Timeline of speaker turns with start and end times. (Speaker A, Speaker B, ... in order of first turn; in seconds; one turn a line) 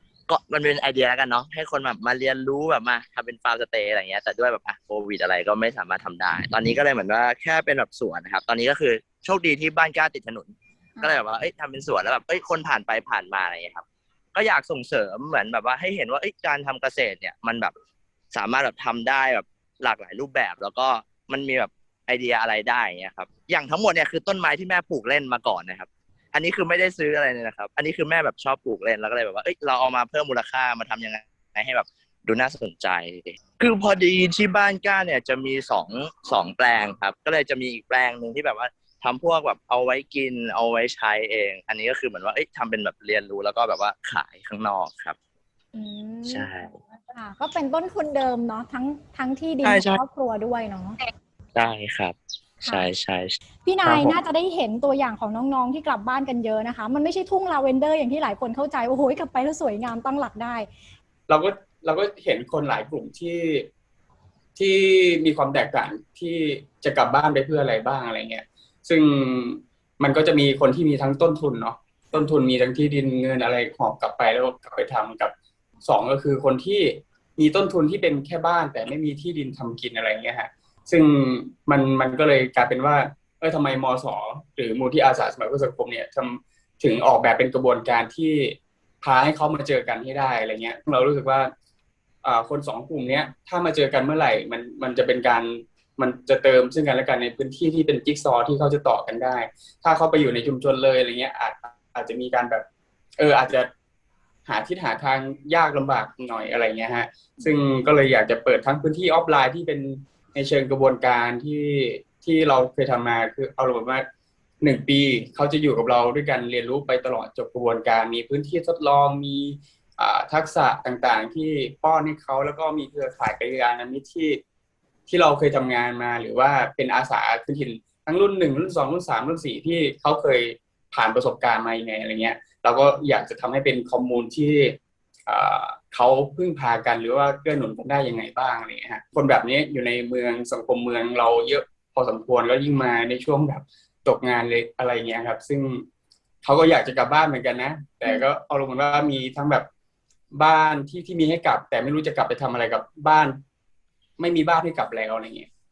Speaker A: 0.3-17.7
Speaker A: 18.3-45.1
Speaker B: 45.7-46.5
Speaker A: 46.2-46.8
Speaker B: 47.1-51.0
Speaker A: 49.6-50.0
Speaker A: 51.5-54.2
Speaker B: 53.6-60.7
Speaker C: 61.3-63.7
Speaker C: 64.5-91.5
Speaker C: 92.2-102.7
Speaker C: 103.2-103.7
Speaker C: 104.4-114.1
Speaker C: 114.6-124.4
Speaker C: 125.1-145.8
Speaker C: 146.4-149.7
Speaker C: 150.3-153.4
Speaker C: 154.2-155.5